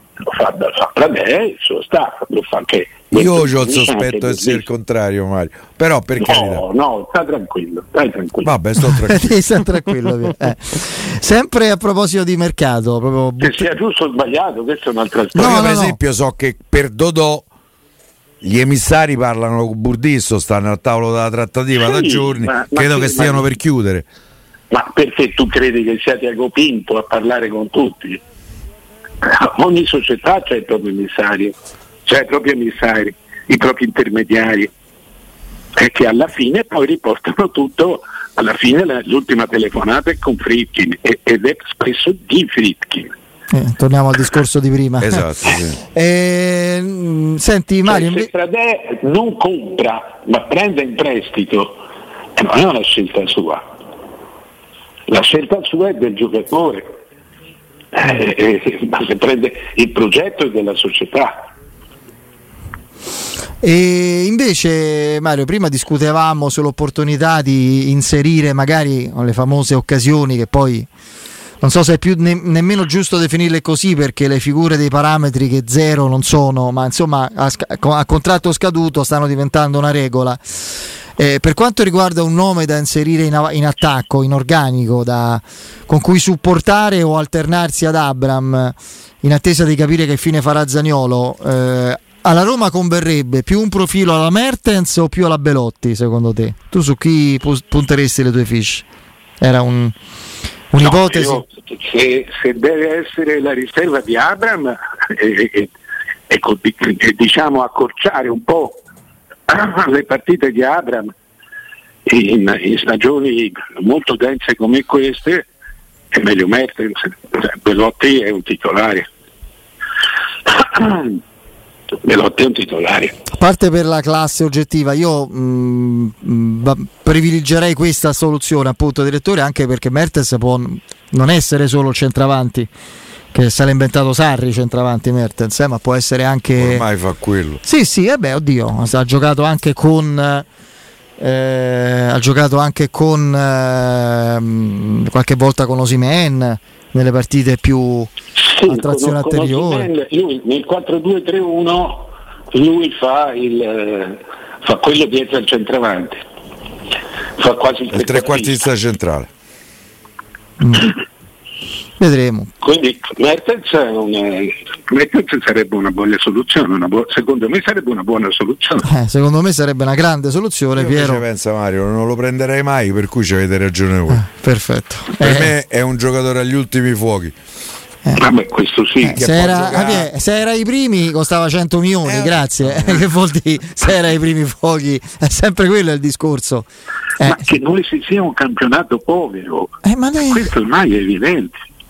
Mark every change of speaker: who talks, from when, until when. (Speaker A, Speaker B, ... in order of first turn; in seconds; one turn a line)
Speaker A: 0.2-4.6
Speaker B: 3.1-6.6
Speaker A: 6.2-8.5
Speaker B: 8.4-9.4
Speaker C: 8.9-13.7
Speaker A: 13.4-15.7
Speaker C: 15.3-16.0
Speaker B: 15.3-17.4
Speaker B: 18.4-24.1
Speaker A: 21.8-23.5
Speaker A: 24.7-28.2
Speaker A: 29.2-34.7
Speaker A: 35.8-43.1
Speaker C: 43.5-45.3
Speaker B: 45.0-45.8
Speaker C: 45.9-48.3
Speaker A: 47.9-51.8
Speaker A: 52.4-53.6
Speaker A: 55.1-56.9
Speaker A: 57.9-61.4
Speaker C: 63.6-70.9
Speaker C: 71.6-80.4
Speaker C: 81.2-98.8
Speaker C: 99.4-99.9
Speaker C: 100.7-101.4
Speaker A: 100.8-105.7
Speaker A: 106.3-108.8
Speaker A: 109.5-111.1
Speaker A: 112.0-115.5
Speaker A: 116.1-119.1
Speaker A: 120.5-121.2
Speaker A: 122.0-123.2
Speaker C: 123.3-132.7
Speaker C: 133.3-136.8
Speaker B: 136.6-137.6
Speaker C: 137.6-140.4
Speaker C: 141.2-148.1
Speaker A: 148.4-156.2
Speaker C: 148.7-149.9
Speaker A: 157.4-158.6
Speaker B: 157.9-159.3
Speaker C: 160.6-160.9
Speaker C: 162.0-162.5
Speaker A: 162.6-168.8
Speaker C: 168.8-171.2
Speaker B: 170.8-174.2
Speaker C: 174.1-175.5
Speaker B: 175.2-177.3
Speaker A: 178.2-179.2
Speaker C: 179.0-186.7
Speaker B: 179.1-180.1
Speaker B: 182.0-183.1
Speaker C: 187.2-187.4
Speaker A: 187.2-189.8
Speaker C: 189.8-190.4
Speaker A: 190.3-191.5